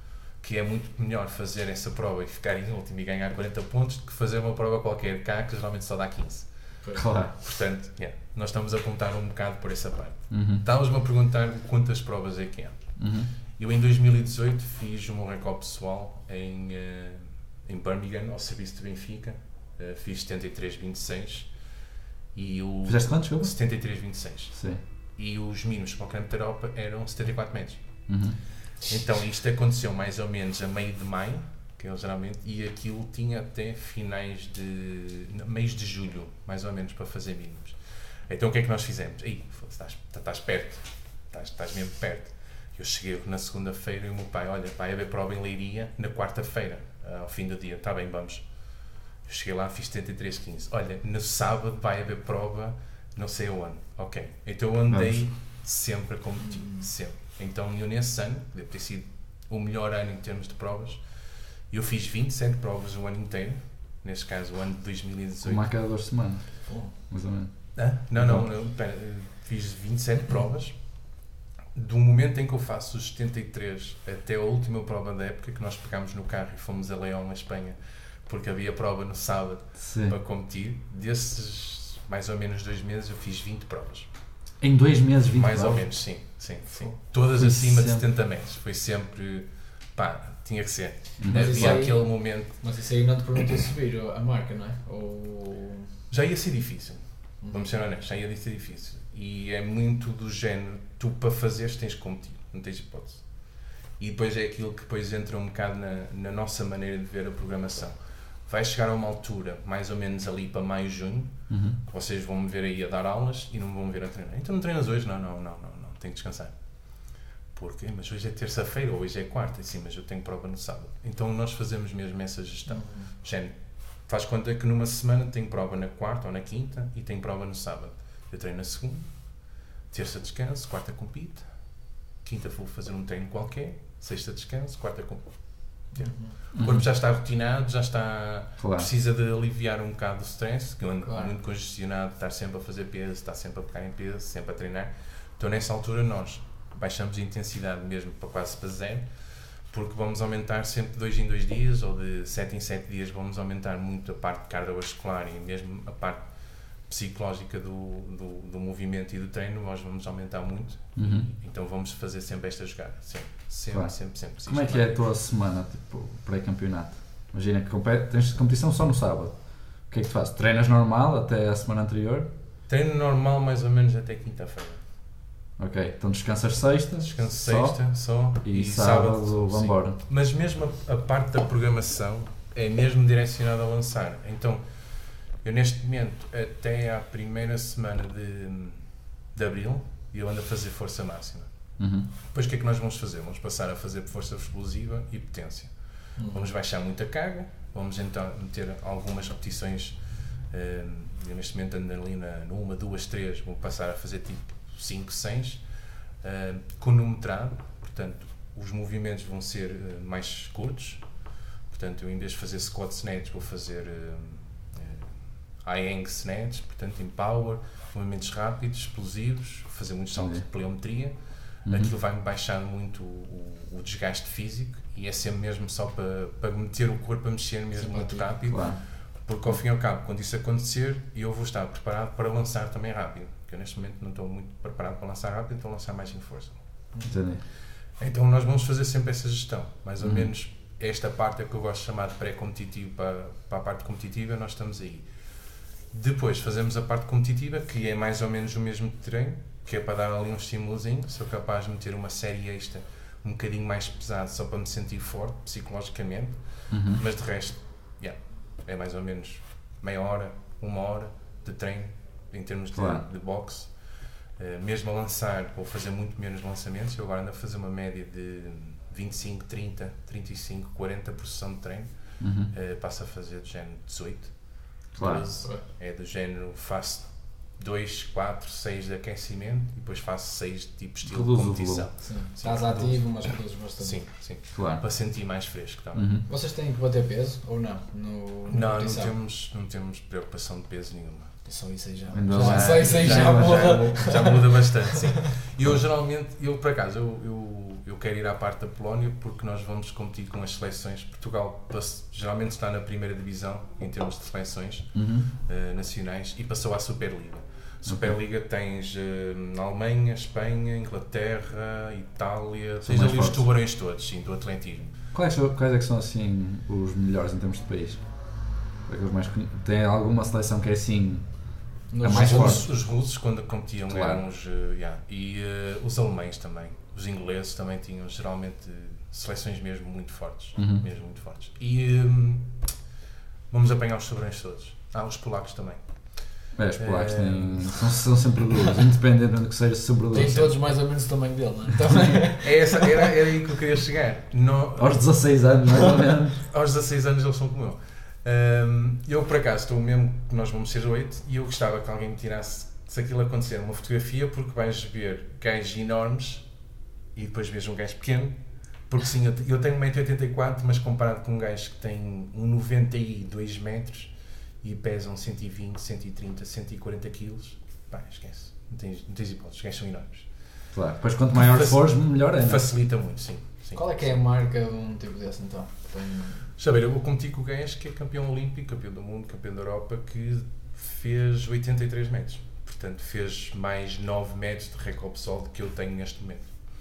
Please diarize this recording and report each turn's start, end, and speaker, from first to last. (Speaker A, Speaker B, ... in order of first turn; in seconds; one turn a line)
Speaker A: 0.4-6.5
Speaker B: 6.9-7.4
Speaker A: 7.4-12.8
Speaker B: 10.3-10.6
Speaker B: 13.0-13.3
Speaker A: 13.6-21.5
Speaker A: 22.3-24.6
Speaker B: 22.9-23.5
Speaker B: 24.5-24.8
Speaker A: 25.1-27.8
Speaker B: 28.1-28.4
Speaker A: 28.8-48.5
Speaker A: 49.2-61.0
Speaker B: 54.9-55.2
Speaker C: 56.5-56.8
Speaker A: 61.7-65.7
Speaker B: 65.4-67.5
Speaker C: 66.7-66.9
Speaker A: 67.8-70.8
Speaker B: 68.2-68.5
Speaker A: 71.7-84.1
Speaker B: 79.8-80.2
Speaker B: 84.6-85.8
Speaker A: 85.3-92.6
Speaker B: 87.4-88.0
Speaker B: 91.2-91.8
Speaker C: 91.3-95.9
Speaker A: 96.1-103.3
Speaker C: 97.4-97.7
Speaker A: 104.0-107.9
Speaker A: 108.5-116.5
Speaker B: 111.5-111.8
Speaker A: 117.5-123.5
Speaker C: 122.7-123.1
Speaker A: 124.1-129.2
Speaker A: 129.9-131.4
Speaker A: 132.2-149.1
Speaker C: 135.9-136.3
Speaker B: 136.6-136.9
Speaker B: 138.6-138.9
Speaker C: 141.1-141.3
Speaker A: 149.7-156.3
Speaker A: 156.9-164.9
Speaker B: 160.9-161.3
Speaker B: 163.7-169.3
Speaker B: 169.9-172.3
Speaker A: 172.7-174.8
Speaker B: 175.6-177.8
Speaker A: 177.0-184.6
Speaker B: 178.4-180.0
Speaker A: 185.4-188.8
Speaker A: 189.3-191.5
Speaker B: 191.8-192.1
Speaker A: 192.3-195.7
Speaker C: 196.2-196.5
Speaker A: 196.3-205.6
Speaker A: 206.2-211.1
Speaker A: 211.7-221.2
Speaker B: 220.2-220.4
Speaker B: 221.7-221.9
Speaker A: 221.7-236.6
Speaker C: 227.8-228.3
Speaker B: 228.5-228.8
Speaker B: 237.1-237.4
Speaker A: 238.0-245.1
Speaker B: 240.0-240.3
Speaker A: 245.9-263.7
Speaker B: 256.7-257.0
Speaker B: 262.7-263.0
Speaker A: 264.4-271.9
Speaker B: 272.2-272.5
Speaker A: 272.5-274.3
Speaker B: 274.9-275.3
Speaker A: 275.0-283.0
Speaker B: 281.0-281.9
Speaker C: 282.0-284.0
Speaker A: 283.8-286.1
Speaker B: 284.5-284.8
Speaker B: 285.9-286.2
Speaker C: 286.3-289.1
Speaker A: 288.5-291.3
Speaker C: 291.4-295.3
Speaker B: 292.1-293.6
Speaker A: 292.3-314.9
Speaker B: 304.9-305.3
Speaker B: 307.9-308.2
Speaker B: 312.8-313.4
Speaker B: 315.1-318.0
Speaker B: 318.9-321.2
Speaker C: 321.9-322.6
Speaker B: 322.0-322.7
Speaker A: 322.0-332.6
Speaker B: 323.9-324.2
Speaker B: 330.6-330.8
Speaker A: 333.5-335.8
Speaker B: 336.6-340.4
Speaker A: 336.8-337.9
Speaker C: 340.1-343.1
Speaker A: 340.1-340.5
Speaker A: 342.4-345.0
Speaker B: 344.8-346.4
Speaker A: 346.4-356.5
Speaker A: 357.1-370.3
Speaker B: 370.7-372.7
Speaker A: 371.3-374.1
Speaker C: 373.7-376.5
Speaker A: 376.6-386.5